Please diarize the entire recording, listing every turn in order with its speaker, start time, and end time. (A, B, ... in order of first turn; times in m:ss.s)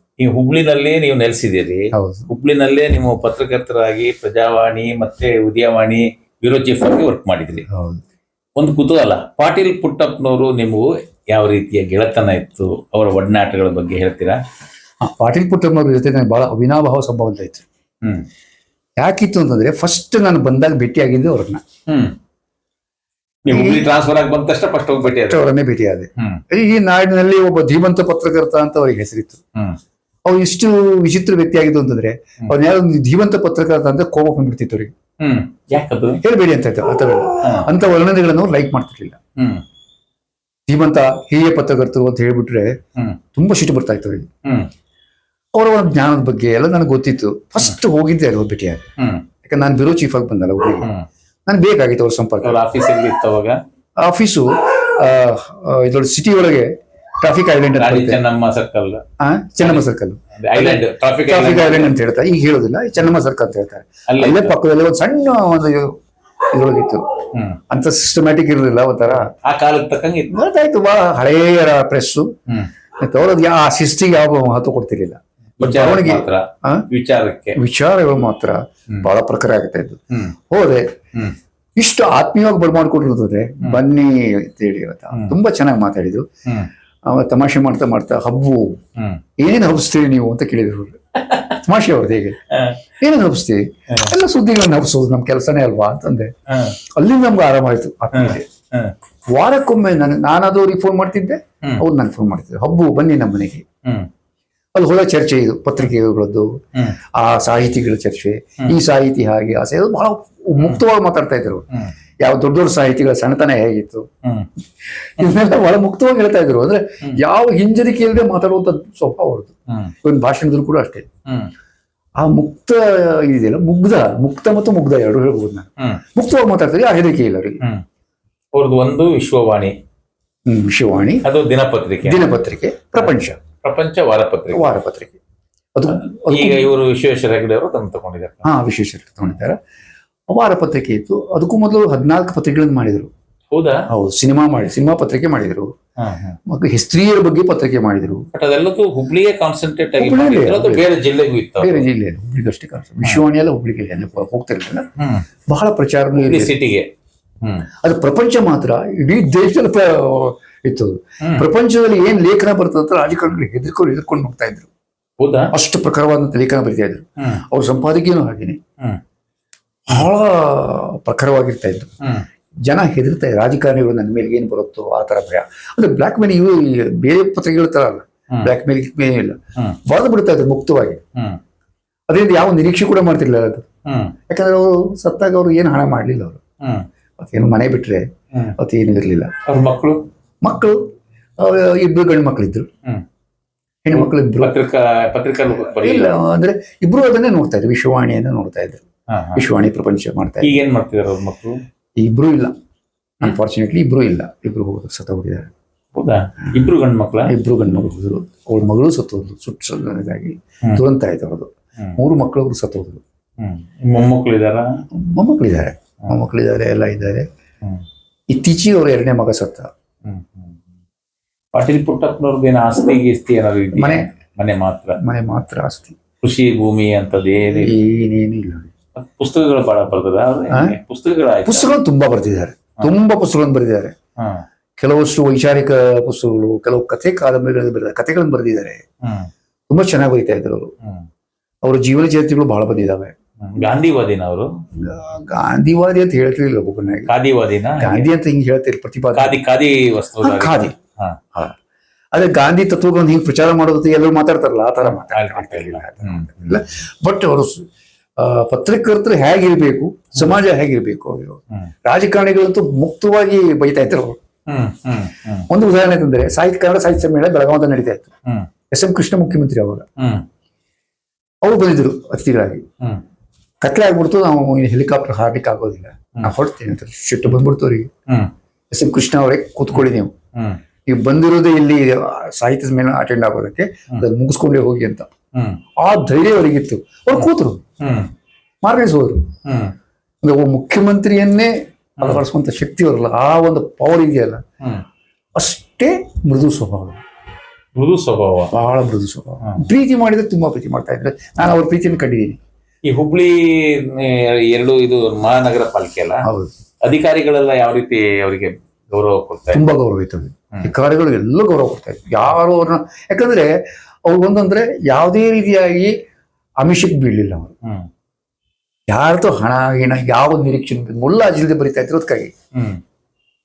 0:00.2-0:07.6 A
0:01.9-0:02.3 B
0:07.7-0:08.0 B
0:08.6-0:14.4 A
0:15.0-0:17.6 B
0:19.0-0:21.6 B
0:21.9-0:22.1 A
0:23.5-0:25.4 A
0:23.5-0:23.9 B
0:25.0-0:29.4 B
0:30.2-0:34.9 B
0:35.2-0:36.2 A
0:36.2-0:39.2 B
0:39.4-0:39.6 A
0:40.7-0:42.7 B
0:43.3-0:44.3 B
0:45.5-0:48.8 B
0:49.0-0:49.2 A
0:49.4-0:50.9 B
0:51.5-0:52.6 B
0:52.4-0:53.6 A
0:54.0-0:58.2 B
0:57.8-0:59.0 A
0:59.2-1:05.9 B
1:00.4-1:01.9 A
1:04.1-1:04.5 A
1:06.5-1:07.0 B
1:07.7-1:09.3 B
1:09.3-1:10.3 A
1:10.3-1:12.3 B
1:13.0-1:16.8 B
1:15.6-1:17.6 A
1:17.6-1:20.9 B
1:21.8-1:26.2 B
1:27.0-1:28.8 B
1:29.4-1:32.4 B
1:32.5-1:32.9 A
1:33.0-1:36.3 B
1:36.5-1:36.8 A
1:37.0-1:38.4 B
1:38.1-1:38.9 A
1:39.3-1:43.6 B
1:44.8-1:46.5 B
1:47.1-1:51.6 B
1:52.2-1:54.0 B
1:54.2-1:54.5 A
1:54.9-2:01.0 B
2:02.2-2:07.6 B
2:08.5-2:09.7 A
2:10.5-2:11.2 B
2:11.2-2:12.3 A
2:12.0-2:13.4 B
2:13.0-2:14.8 A
2:14.5-2:15.2 B
2:15.8-2:16.7 B
2:15.9-2:18.5 A
2:18.4-2:19.6 B
2:20.3-2:23.1 B
2:23.5-2:23.8 A
2:23.9-2:25.7 B
2:26.0-2:26.4 A
2:26.5-2:28.3 B
2:28.3-2:31.8 A
2:30.0-2:30.9 B
2:31.6-2:34.8 B
2:35.0-2:35.2 A
2:35.5-2:36.6 B
2:36.2-2:36.9 A
2:37.4-2:37.7 A
2:37.8-2:44.7 B
2:45.2-2:45.5 A
2:45.5-2:48.6 B
2:49.9-2:51.9 B
2:52.7-3:01.0 B
3:02.1-3:03.6 B
3:03.8-3:04.2 A
3:04.3-3:06.4 B
3:07.2-3:08.0 B
3:08.6-3:09.3 B
3:09.5-3:10.0 A
3:10.4-3:10.8 B
3:11.4-3:12.7 B
3:13.8-3:14.6 B
3:13.9-3:16.2 A
3:15.6-3:18.8 B
3:19.1-3:19.4 A
3:19.4-3:20.6 B
3:20.4-3:21.6 A
3:22.0-3:22.5 B
3:23.2-3:25.5 B
3:25.9-3:27.3 A
3:27.3-3:33.0 B
3:33.4-3:34.7 A
3:34.9-3:37.2 B
3:38.3-3:39.7 B
3:40.0-3:40.6 A
3:41.5-3:45.0 A
3:43.8-3:44.1 B
3:45.0-3:46.0 B
3:46.2-3:47.7 A
3:47.5-3:48.7 B
3:49.0-3:51.7 A
3:50.5-3:50.8 B
3:51.4-3:53.9 B
3:54.2-3:54.4 A
3:54.8-3:58.8 B
3:59.0-3:59.3 A
3:59.7-4:00.7 B
4:01.6-4:03.1 B
4:03.4-4:04.6 A
4:04.7-4:07.1 B
4:07.1-4:08.1 A
4:07.8-4:09.4 B
4:09.2-4:11.2 A
4:10.2-4:10.8 B
4:12.1-4:24.2 B
4:14.8-4:16.6 A
4:24.5-4:25.5 A
4:25.5-4:28.1 B
4:28.7-4:29.9 B
4:30.0-4:30.2 A
4:31.4-4:32.6 B
4:33.6-4:37.9 B
4:38.7-4:40.1 B
4:40.9-4:45.1 B
4:45.3-4:45.6 A
4:45.8-4:47.6 B
4:47.8-4:48.1 A
4:48.6-4:49.3 B
4:49.4-4:49.8 A
4:50.2-4:54.4 B
4:55.4-4:57.0 B
4:57.8-4:58.5 A
4:58.5-5:02.4 B
5:02.9-5:06.3 A
5:06.2-5:06.5 B
5:06.8-5:09.6 A
5:09.5-5:13.5 B
5:14.1-5:15.9 B
5:16.6-5:17.5 B
5:18.9-5:22.3 B
5:22.6-5:22.8 A